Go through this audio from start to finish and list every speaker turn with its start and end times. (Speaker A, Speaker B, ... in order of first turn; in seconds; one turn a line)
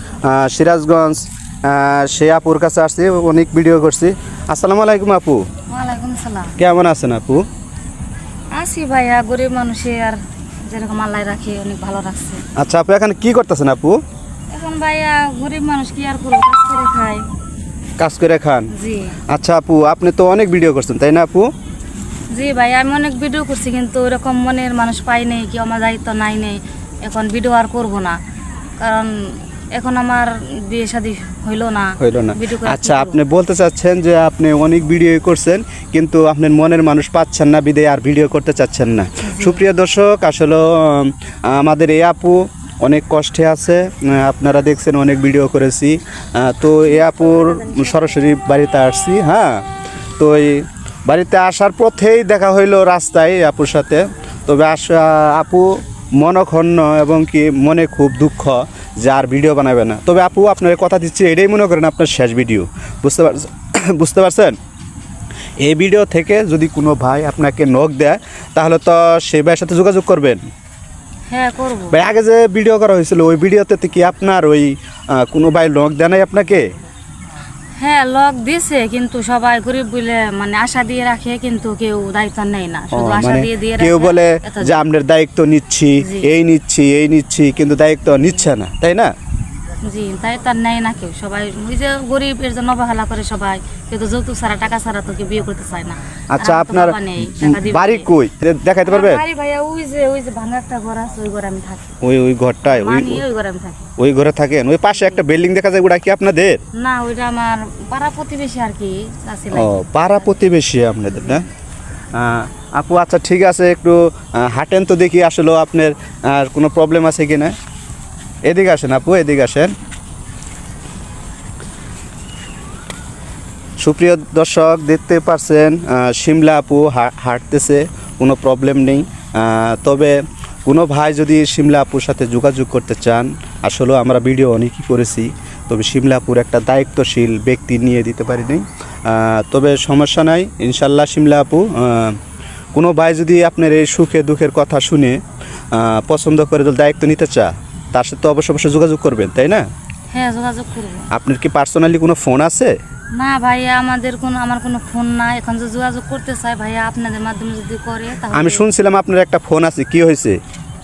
Speaker A: 0.2-5.5
Speaker B: 5.7-6.6
Speaker A: 6.6-7.5
Speaker B: 8.5-12.4
Speaker A: 12.6-14.0
Speaker B: 14.5-17.3
Speaker A: 18.0-18.7
Speaker B: 18.7-19.2
Speaker A: 19.3-21.5
Speaker B: 22.3-28.2
Speaker B: 28.8-33.2
Speaker A: 32.0-49.6
Speaker B: 39.2-39.6
Speaker A: 50.2-64.6
Speaker A: 65.6-70.4
Speaker B: 71.3-72.0
Speaker A: 71.9-76.7
Speaker B: 77.8-84.8
Speaker A: 82.9-89.1
Speaker B: 86.0-86.3
Speaker B: 89.8-98.1
Speaker A: 96.3-99.2
Speaker B: 98.8-102.0
Speaker A: 102.0-103.2
Speaker B: 102.6-103.9
Speaker A: 104.0-106.6
Speaker B: 104.9-105.2
Speaker B: 106.7-110.4
Speaker A: 109.5-111.5
Speaker B: 111.1-111.4
Speaker A: 112.1-117.5
Speaker A: 118.5-119.7
Speaker A: 123.8-142.2
Speaker A: 142.7-145.2
Speaker A: 145.7-149.7
Speaker B: 150.1-151.1
Speaker A: 151.1-152.8
Speaker B: 153.1-158.7
Speaker A: 158.3-160.4